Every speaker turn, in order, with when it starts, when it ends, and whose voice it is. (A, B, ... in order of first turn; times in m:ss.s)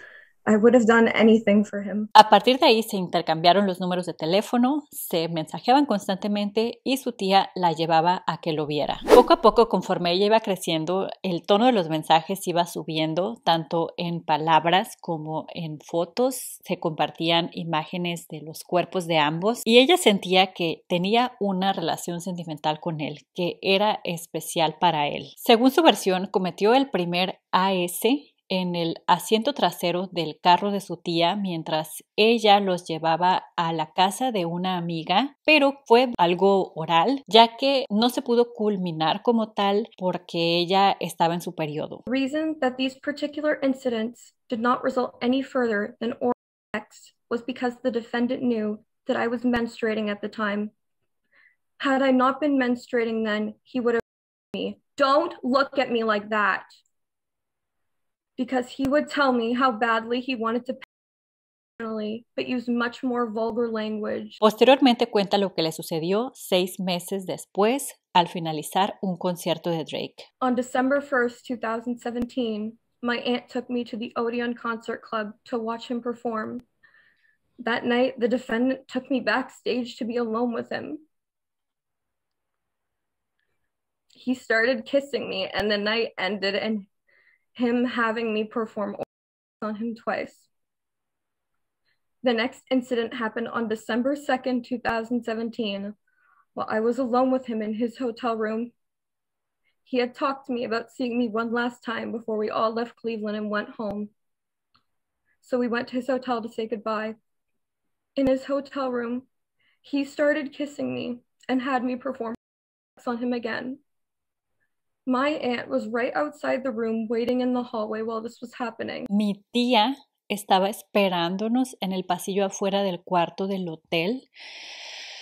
0:00.5-0:02.1 A
0:02.2-0:42.0 B
0:42.1-0:50.7 A
0:51.8-0:56.8 A
0:58.4-1:00.8 A
1:01.8-1:04.4 A
1:04.4-1:10.3 B
1:10.4-1:16.6 A
1:17.6-1:21.0 A
1:24.1-1:26.9 A
1:27.6-1:29.1 A
1:29.6-1:30.5 A
1:32.2-1:36.0 A
1:36.6-1:38.7 A
1:39.8-1:44.1 A
1:45.4-1:47.2 A
1:48.2-1:49.3 A
1:49.8-1:52.4 A
1:53.0-1:53.8 A
1:55.1-1:59.1 A
1:59.1-2:04.3 B